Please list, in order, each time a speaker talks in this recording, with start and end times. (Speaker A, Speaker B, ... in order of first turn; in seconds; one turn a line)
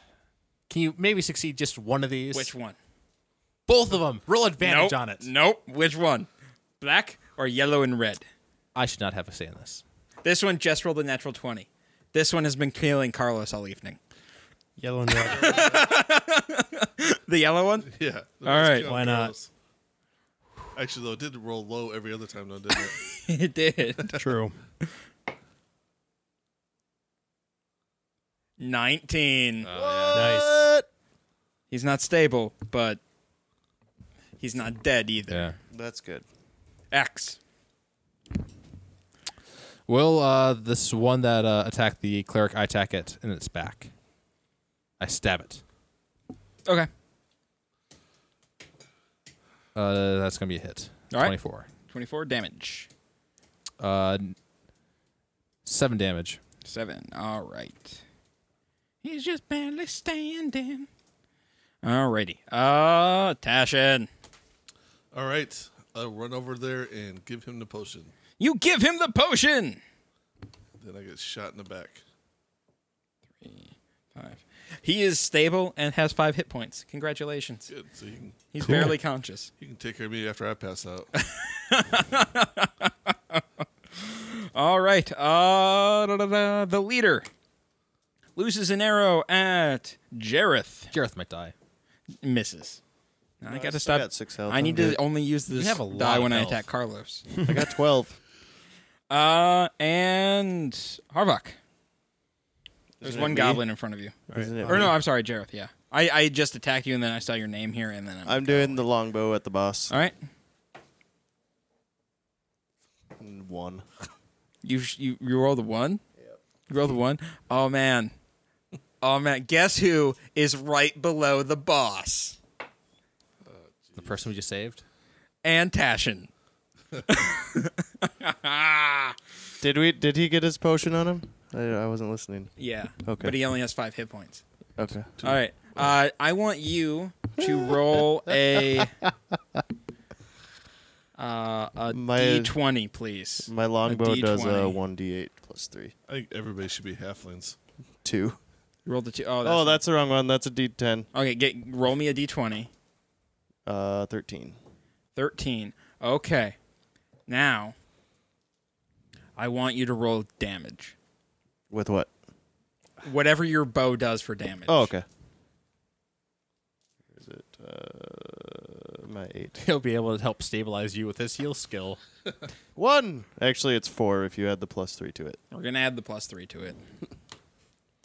Speaker A: 0.7-2.5
Speaker B: 2.3-2.8
Speaker A: 3.7-5.2
Speaker B: 4.6-6.3
Speaker B: 6.8-8.2
Speaker A: 8.7-9.8
Speaker B: 10.2-14.0
Speaker C: 14.8-15.7
Speaker B: 15.2-17.9
Speaker D: 15.4-15.9
Speaker D: 17.8-19.5
Speaker B: 18.4-18.9
Speaker C: 18.9-19.3
Speaker D: 20.7-23.0
Speaker B: 22.9-24.1
Speaker C: 24.1-24.6
Speaker B: 28.6-29.7
Speaker A: 29.6-30.4
Speaker E: 29.7-30.9
Speaker C: 30.1-30.5
Speaker B: 31.7-33.0
Speaker B: 34.4-35.5
Speaker A: 35.3-35.6
Speaker E: 35.7-36.2
Speaker B: 36.9-37.4
Speaker A: 39.9-43.9
Speaker A: 45.0-45.6
Speaker A: 49.7-51.7
Speaker B: 51.1-52.9
Speaker A: 53.8-54.3
Speaker A: 55.6-56.4
Speaker B: 56.6-58.0
Speaker B: 59.0-60.9
Speaker B: 61.8-64.1
Speaker D: 65.1-68.1
Speaker B: 68.4-69.8
Speaker D: 70.8-72.0
Speaker B: 73.4-77.7
Speaker D: 77.7-78.9
Speaker B: 78.5-79.5
Speaker C: 78.7-78.9
Speaker D: 79.5-81.1
Speaker B: 81.2-87.3
Speaker B: 88.3-90.9
Speaker A: 90.9-91.5
Speaker B: 92.2-92.8
Speaker B: 93.4-97.3
Speaker E: 93.5-95.0
Speaker A: 95.5-96.6
Speaker E: 97.4-98.2
Speaker B: 99.1-101.6
Speaker E: 103.0-103.6
Speaker B: 103.0-108.8
Speaker C: 104.3-104.9
Speaker E: 104.3-105.0
Speaker E: 108.2-109.9
Speaker B: 109.9-110.2
Speaker E: 113.2-113.9
Speaker B: 114.6-116.0
Speaker B: 116.7-118.1
Speaker B: 119.0-122.4
Speaker D: 123.4-124.2
Speaker A: 124.0-124.8
Speaker B: 125.4-126.3
Speaker B: 127.0-129.2
Speaker E: 129.6-133.3
Speaker B: 132.6-134.4
Speaker E: 134.8-135.1
Speaker B: 135.2-138.9
Speaker E: 137.4-138.0
Speaker B: 141.2-144.8
Speaker E: 141.9-142.5
Speaker E: 143.4-145.9
Speaker D: 146.1-147.6
Speaker E: 148.0-148.4
Speaker B: 148.8-149.8
Speaker E: 149.4-151.1
Speaker B: 151.1-152.7
Speaker E: 153.7-154.6
Speaker B: 155.2-156.6
Speaker B: 157.3-157.8
Speaker B: 159.4-160.9
Speaker E: 161.7-162.1
Speaker B: 163.0-164.9
Speaker E: 164.7-165.0
Speaker E: 167.1-169.6
Speaker A: 169.6-172.0
Speaker E: 172.8-175.4
Speaker B: 175.5-176.8